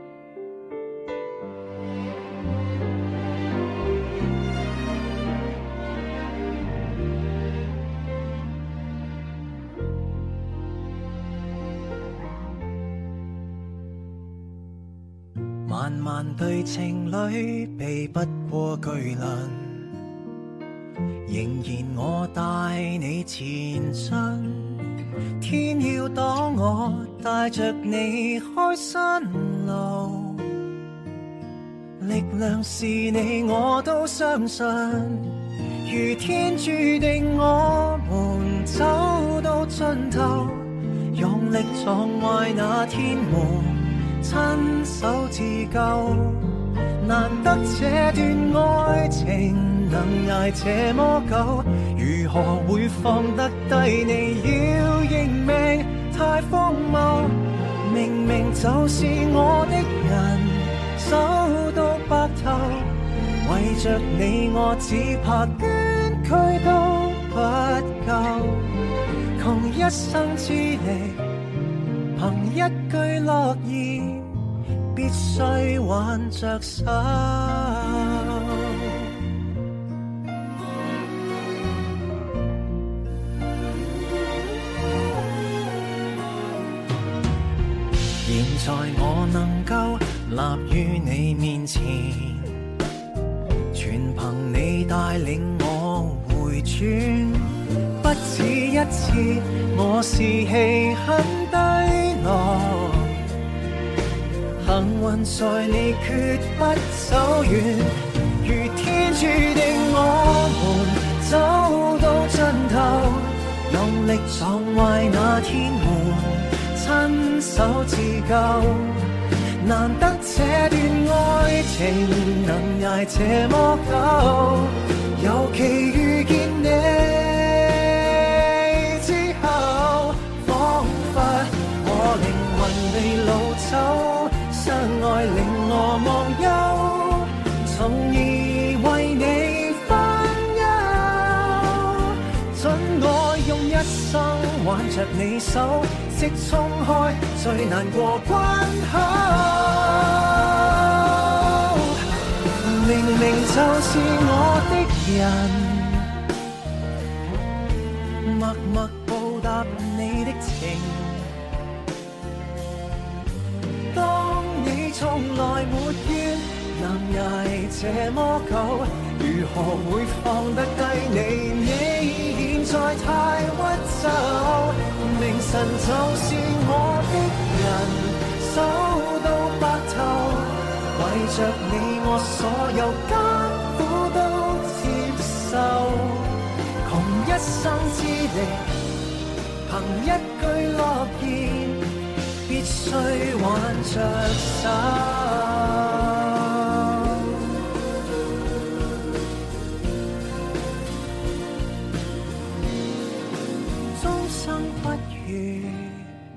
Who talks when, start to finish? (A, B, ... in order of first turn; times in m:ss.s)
0:15.6-0:20.0 A
0:21.2-0:30.6 A
0:32.0-1:08.8 A
1:09.4-1:11.3 A
1:12.1-1:14.4 A
1:14.9-1:19.1 A
1:28.2-1:32.6 A
1:33.7-1:43.2 A
1:44.6-2:32.0 A
2:32.6-2:36.1 A
2:38.2-2:41.3 A
2:43.9-3:08.7 A
3:09.6-3:17.4 A
3:23.9-3:26.1 A